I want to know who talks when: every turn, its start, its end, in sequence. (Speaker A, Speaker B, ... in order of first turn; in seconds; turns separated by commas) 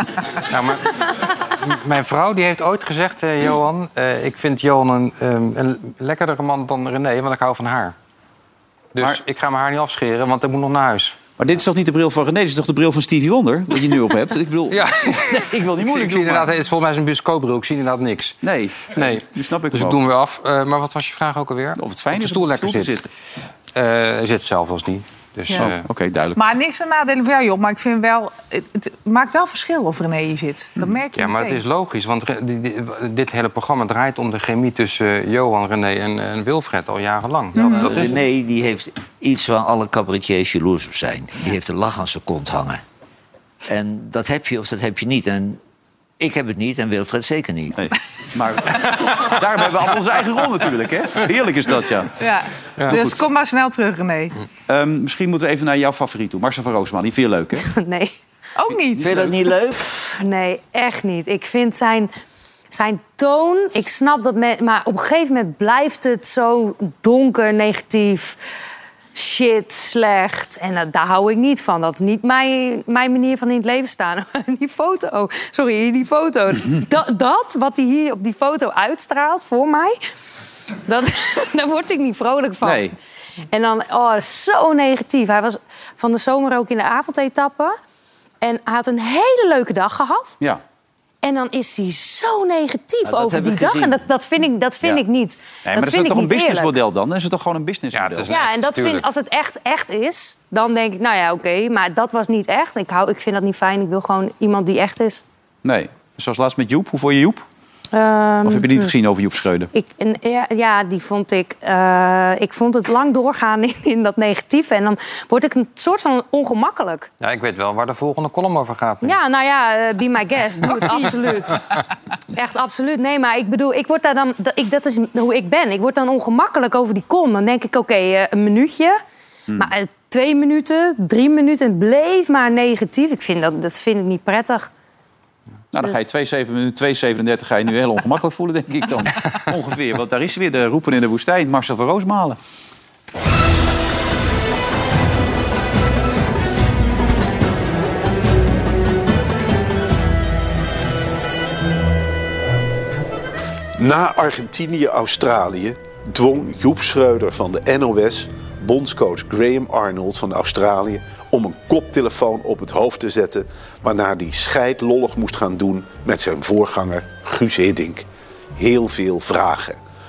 Speaker A: 0.5-8.0, Speaker A: 8.9-11.2, Speaker B: 11.4-16.5, Speaker A: 14.7-23.1, Speaker B: 18.4-20.0, Speaker B: 21.8-23.1, Speaker A: 23.7-25.9, Speaker B: 25.6-26.4, Speaker C: 26.3-31.6, Speaker A: 31.1-38.2, Speaker D: 37.6-42.8, Speaker C: 37.6-37.9, Speaker D: 43.6-45.6, Speaker D: 46.2-47.8, Speaker B: 47.8-52.1, Speaker C: 52.1-54.4, Speaker B: 52.9-53.2, Speaker B: 54.7-57.6, Speaker E: 57.6-58.1, Speaker C: 58.5-59.2, Speaker D: 59.0-60.1, Speaker B: 59.0-59.3, Speaker E: 60.1-62.1, Speaker E: 62.7-68.4, Speaker E: 69.1-80.0, Speaker E: 80.8-82.9, Speaker B: 82.6-82.9, Speaker E: 83.5-87.8, Speaker E: 88.4-90.4, Speaker E: 91.2-96.8, Speaker D: 93.0-94.0, Speaker B: 95.6-98.3, Speaker A: 97.9-99.1, Speaker E: 98.3-105.2, Speaker B: 105.6-107.4, Speaker E: 107.9-108.9, Speaker B: 108.4-109.7, Speaker E: 109.7-117.1, Speaker A: 117.2-119.2, Speaker E: 119.0-121.7, Speaker E: 122.3-129.0, Speaker E: 129.6-134.7, Speaker B: 135.7-142.4, Speaker F: 153.8-169.8